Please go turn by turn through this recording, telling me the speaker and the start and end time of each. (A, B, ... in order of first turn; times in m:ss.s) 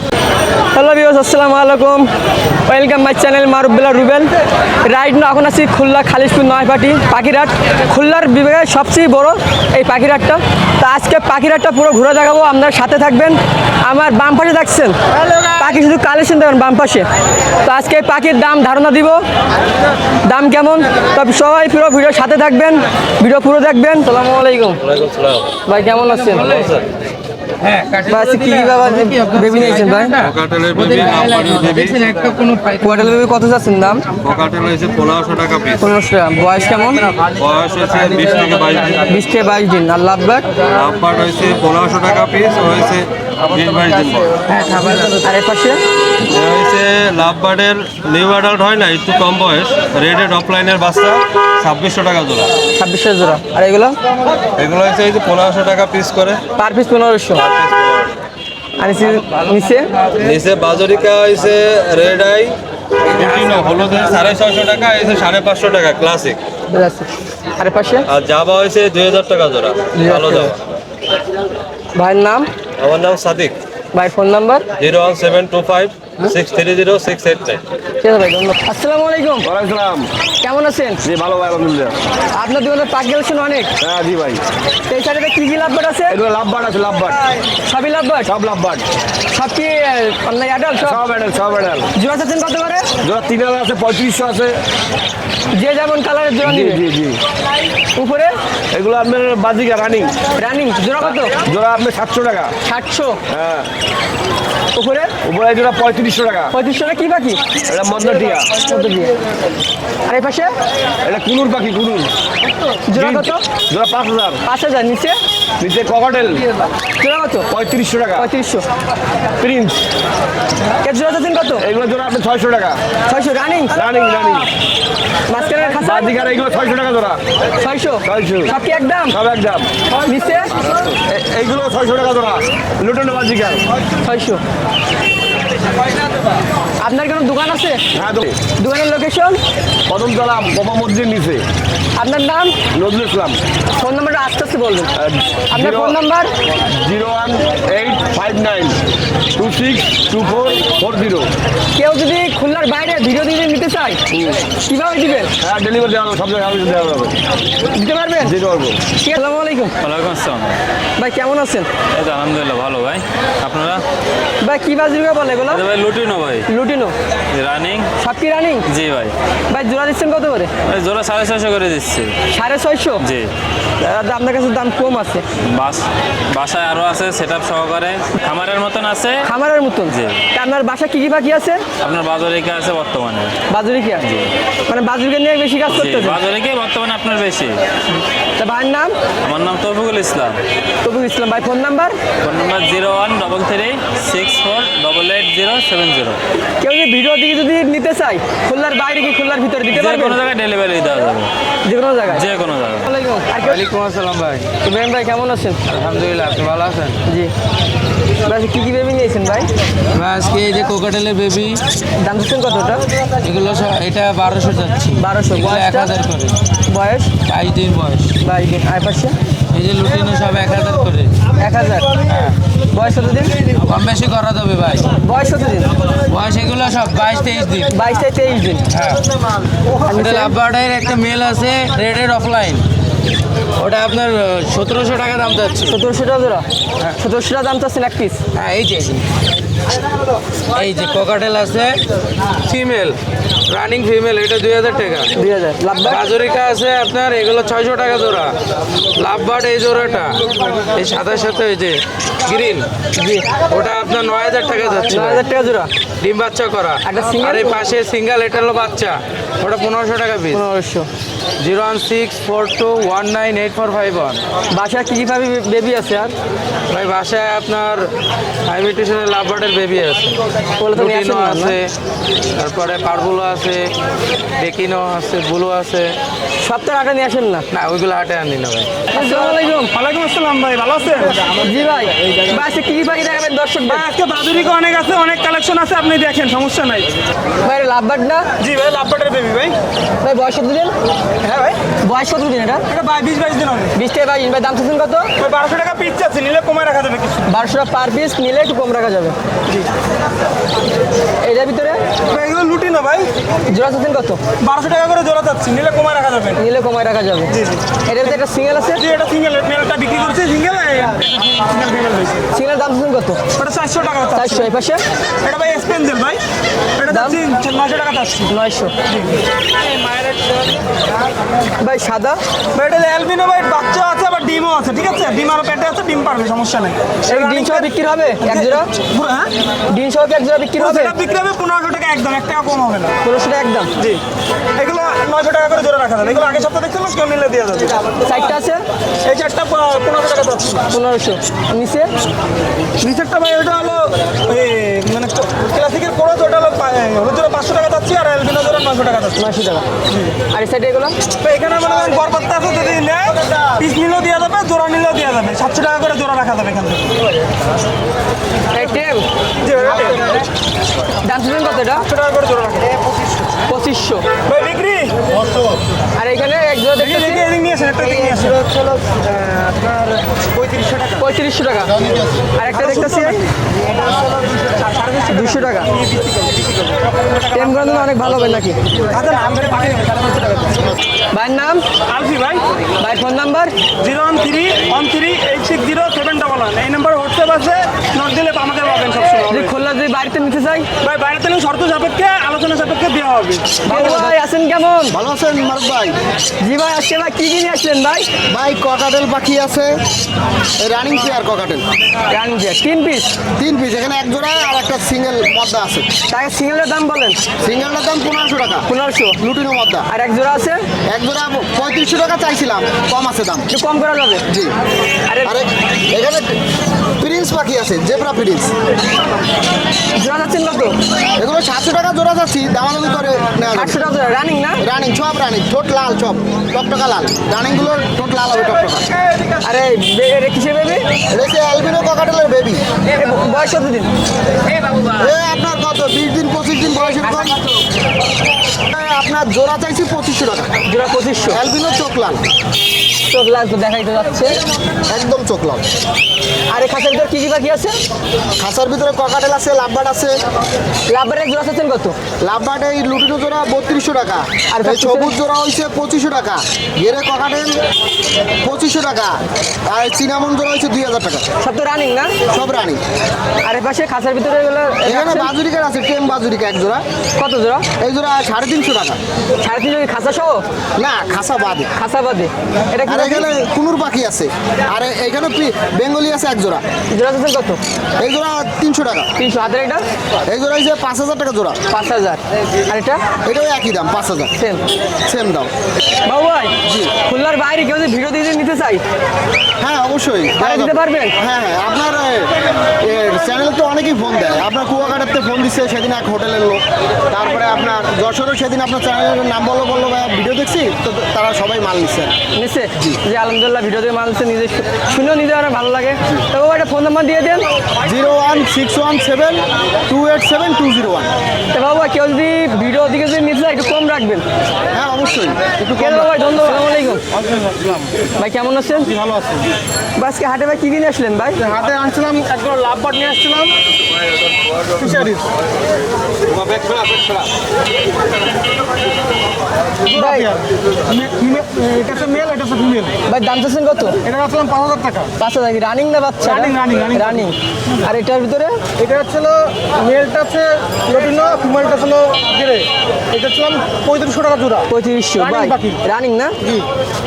0:00.7-0:02.1 A
0:02.6-0:04.3 A
0:04.8-0:15.0 A
0:15.5-0:17.0 A
0:17.6-0:19.2 A
0:20.2-0:24.8 A
0:24.8-0:25.5 B
0:25.6-0:26.7 A
0:26.6-0:26.8 B
0:27.6-0:33.1 C
0:28.1-0:30.2 A
0:30.2-0:32.0 B
0:32.8-0:34.0 A
0:34.2-0:35.8 B
0:35.8-0:37.0 A
0:37.4-0:39.1 B
0:39.0-0:40.5 A
0:40.7-0:44.3 B
0:44.5-0:45.2 C
0:45.2-0:45.8 A
0:46.3-0:52.5 B
0:52.8-0:54.0 A
0:54.6-0:56.4 B
0:56.6-0:57.4 A
0:57.3-0:58.2 B
0:58.8-0:59.9 A
1:00.2-1:02.6 B
1:03.1-1:06.4 B
1:03.5-1:03.8 C
1:06.7-1:08.1 A
1:08.0-1:10.6 B
1:10.0-1:10.5 A
1:11.9-1:12.5 A
1:12.8-1:13.6 B
1:13.9-1:14.7 A
1:14.8-1:17.6 B
1:18.0-1:19.5 A
1:19.4-1:20.1 D
1:20.4-1:21.0 A
1:21.0-1:22.0 D
1:22.3-1:23.7 A
1:23.8-1:24.4 D
1:24.9-1:26.2 A
1:26.1-1:27.2 D
1:27.6-1:28.3 A
1:28.2-1:28.8 D
1:29.3-1:31.0 A
1:30.8-1:31.9 D
1:31.9-1:32.9 A
1:33.0-1:34.6 D
1:35.5-1:36.8 A
1:36.4-1:37.2 D
1:37.9-1:38.4 A
1:38.7-1:40.1 D
1:40.4-1:41.3 A
1:41.4-1:42.5 D
1:42.6-1:43.2 A
1:43.3-1:43.7 D
1:44.7-1:45.1 A
1:45.2-1:46.5 D
1:46.5-1:47.4 A
1:47.7-1:48.5 D
1:48.6-1:49.1 A
1:50.1-1:50.5 A
1:51.0-1:52.1 D
1:52.9-1:53.4 A
1:52.9-1:54.4 D
1:54.4-1:55.2 A
1:55.6-1:56.5 D
1:57.0-1:57.5 A
1:57.5-1:58.3 D
1:58.2-1:58.6 A
1:59.4-1:59.8 D
2:00.8-2:01.6 A
2:01.6-2:02.8 D
2:03.0-2:03.7 A
2:03.7-2:04.5 D
2:05.3-2:06.1 A
2:05.8-2:07.2 D
2:07.6-2:09.2 A
2:08.0-2:08.5 D
2:09.1-2:09.7 D
2:10.0-2:10.5 A
2:10.9-2:13.6 D
2:14.0-2:14.4 A
2:16.8-2:17.8 A
2:17.9-2:18.4 D
2:18.6-2:19.4 A
2:19.9-2:21.4 D
2:21.9-2:22.6 A
2:22.7-2:23.4 D
2:23.8-2:24.9 A
2:25.0-2:26.0 D
2:25.5-2:26.3 A
2:26.7-2:28.8 D
2:29.4-2:31.3 D
2:31.7-2:34.0 A
2:34.1-2:34.4 D
2:34.6-2:35.3 A
2:35.4-2:37.2 D
2:37.7-2:38.4 A
2:38.2-2:38.8 D
2:38.9-2:39.7 A
2:39.8-2:40.6 E
2:41.0-2:41.7 A
2:41.9-2:43.8 E
2:44.4-2:45.6 A
2:45.5-2:46.4 E
2:46.5-2:46.9 A
2:47.3-2:47.9 E
2:48.0-2:48.7 A
2:48.7-2:49.1 E
2:49.5-2:50.5 A
2:50.6-2:52.2 E
2:52.3-2:53.0 A
2:53.0-2:53.3 E
2:53.8-2:55.2 A
2:55.4-2:59.3 E
2:59.2-3:01.6 A
2:59.9-3:00.2 E
3:01.8-3:03.4 E
3:03.5-3:04.0 A
3:04.0-3:04.3 E
3:04.6-3:06.2 A
3:05.7-3:07.6 E
3:08.4-3:08.9 A
3:09.2-3:10.4 E
3:10.8-3:12.0 A
3:12.2-3:16.2 E
3:16.6-3:20.2 A
3:19.7-3:21.3 E
3:21.6-3:22.2 A
3:22.1-3:22.9 E
3:22.9-3:23.6 A
3:23.4-3:24.5 C
3:24.6-3:25.6 A
3:25.7-3:27.0 C
3:27.0-3:27.3 A
3:28.2-3:29.5 A
3:29.9-3:31.6 C
3:32.0-3:32.8 A
3:33.2-3:36.4 C
3:35.0-3:36.0 A
3:36.6-3:37.1 A
3:37.3-3:38.2 C
3:38.2-3:39.2 A
3:39.5-3:41.2 C
3:41.4-3:43.4 A
3:43.6-3:45.0 C
3:45.0-3:45.7 A
3:46.1-3:47.7 C
3:47.7-3:48.6 A
3:48.7-3:49.1 C
3:49.8-3:52.6 C
3:49.8-3:50.4 A
3:53.6-3:55.8 C
3:55.7-3:58.2 A
3:58.3-3:59.0 C
4:00.5-4:01.8 C
4:02.4-4:03.0 C
4:03.5-4:05.1 C
4:05.1-4:06.0 A
4:05.8-4:08.4 C
4:09.0-4:12.7 C
4:13.0-4:13.3 A
4:13.4-4:15.2 C
4:14.9-4:15.7 A
4:16.0-4:20.4 C
4:16.8-4:17.6 A
4:20.3-4:20.9 A
4:21.4-4:24.2 C
4:24.5-4:26.1 A
4:26.7-4:27.9 C
4:28.4-4:31.7 C
4:30.6-4:31.6 A
4:32.3-4:33.7 C
4:34.4-4:36.0 C
4:36.4-4:37.5 A
4:37.5-4:38.9 C
4:38.9-4:39.7 A
4:39.0-4:41.4 F
4:41.4-4:43.8 A
4:43.6-4:46.9 F
4:47.4-4:48.3 A
4:48.4-4:49.5 F
4:50.0-4:50.7 A
4:51.2-4:51.6 F
4:51.8-4:52.6 A
4:52.7-4:53.7 F
4:53.7-4:55.1 A
4:55.2-4:57.3 F
4:57.3-4:59.2 A
5:01.2-5:01.8 A
5:02.0-5:03.1 F
5:03.5-5:04.2 A
5:04.4-5:06.4 F
5:06.4-5:07.3 A
5:07.3-5:08.2 F
5:07.8-5:08.8 A
5:08.7-5:12.2 F
5:12.3-5:13.2 A
5:13.4-5:14.5 F
5:14.1-5:14.8 A
5:15.2-5:16.2 F
5:16.8-5:18.3 F
5:16.9-5:17.2 A
5:18.2-5:18.7 A
5:21.6-5:22.2 A
5:22.5-5:27.7 F
5:27.1-5:28.7 A
5:28.2-5:29.3 F
5:29.7-5:30.9 A
5:30.6-5:32.9 F
5:33.0-5:33.7 A
5:34.6-5:37.8 F
5:38.0-5:38.6 A
5:39.0-5:40.6 F
5:40.7-5:41.9 A
5:42.8-5:49.2 F
5:49.2-5:49.7 A
5:50.3-5:51.0 A
5:51.2-5:57.0 F
5:58.5-5:59.1 A
5:59.4-6:00.2 F
6:01.0-6:01.8 A
6:01.8-6:02.9 F
6:03.5-6:04.0 A
6:04.2-6:05.0 F
6:05.9-6:07.3 A
6:06.8-6:11.0 F
6:11.0-6:11.8 A
6:12.4-6:13.2 A
6:12.5-6:13.2 F
6:14.4-6:18.1 F
6:15.1-6:15.7 A
6:17.3-6:18.6 A
6:18.9-6:20.6 F
6:21.1-6:21.6 A
6:21.9-6:22.4 F
6:22.8-6:23.6 A
6:23.8-6:29.5 F
6:29.3-6:30.7 A
6:30.8-6:34.1 F
6:33.6-6:34.9 A
6:34.9-6:36.0 G
6:36.4-6:38.1 A
6:38.3-6:39.8 G
6:40.6-6:41.6 G
6:42.1-6:43.1 A
6:43.4-6:45.9 G
6:46.1-6:47.2 A
6:47.4-6:48.7 G
6:48.6-6:49.2 A
6:49.2-6:49.8 G
6:49.9-6:50.6 A
6:50.8-6:53.5 G
6:53.5-6:54.2 A
6:54.3-6:54.5 G
6:55.1-6:55.4 A
6:55.2-6:56.4 G
6:57.0-6:58.5 G
6:59.9-7:00.8 A
7:01.2-7:03.8 G
7:03.5-7:04.6 A
7:04.6-7:08.9 G
7:09.4-7:10.8 A
7:11.1-7:12.6 G
7:12.9-7:13.9 A
7:14.8-7:17.4 G
7:18.7-7:20.5 G
7:20.6-7:21.4 A
7:21.3-7:22.2 G
7:23.1-7:24.4 A
7:24.9-7:25.6 G
7:26.5-7:27.8 A
7:28.4-7:30.2 G
7:30.9-7:32.0 A
7:32.2-7:37.6 G
7:34.5-7:35.1 A
7:38.4-7:41.2 G
7:41.4-7:42.1 A
7:42.3-7:42.8 G
7:43.4-7:45.3 A
7:44.8-7:46.8 G
7:47.2-7:47.6 A
7:47.8-7:49.0 G
7:49.4-7:50.4 A
7:50.8-7:51.7 G
7:51.7-7:53.3 A
7:52.8-7:56.6 G
7:56.9-7:57.6 A
7:58.0-7:59.1 G
7:59.2-7:59.8 A
8:00.2-8:01.6 G
8:01.7-8:03.0 A
8:03.2-8:04.3 G
8:04.4-8:04.6 A
8:05.0-8:05.5 G
8:06.0-8:08.8 A
8:06.6-8:06.9 G
8:09.6-8:22.1 G
8:10.4-8:11.1 A
8:22.3-8:27.5 A
8:27.8-8:31.1 G
8:31.5-8:34.2 A
8:34.7-8:36.2 G
8:35.8-8:37.0 A
8:37.1-8:37.9 F
8:38.2-8:38.9 A
8:38.8-8:39.5 F
8:40.0-8:41.4 A
8:41.4-8:43.5 F
8:44.8-8:45.3 F
8:49.9-8:52.9 F
8:49.9-8:50.3 A
8:53.0-8:54.0 A
8:54.0-8:55.1 F
8:55.2-8:58.6 A
8:56.2-8:57.2 F
8:58.8-9:04.6 F
9:04.7-9:06.4 A
9:05.2-9:05.8 F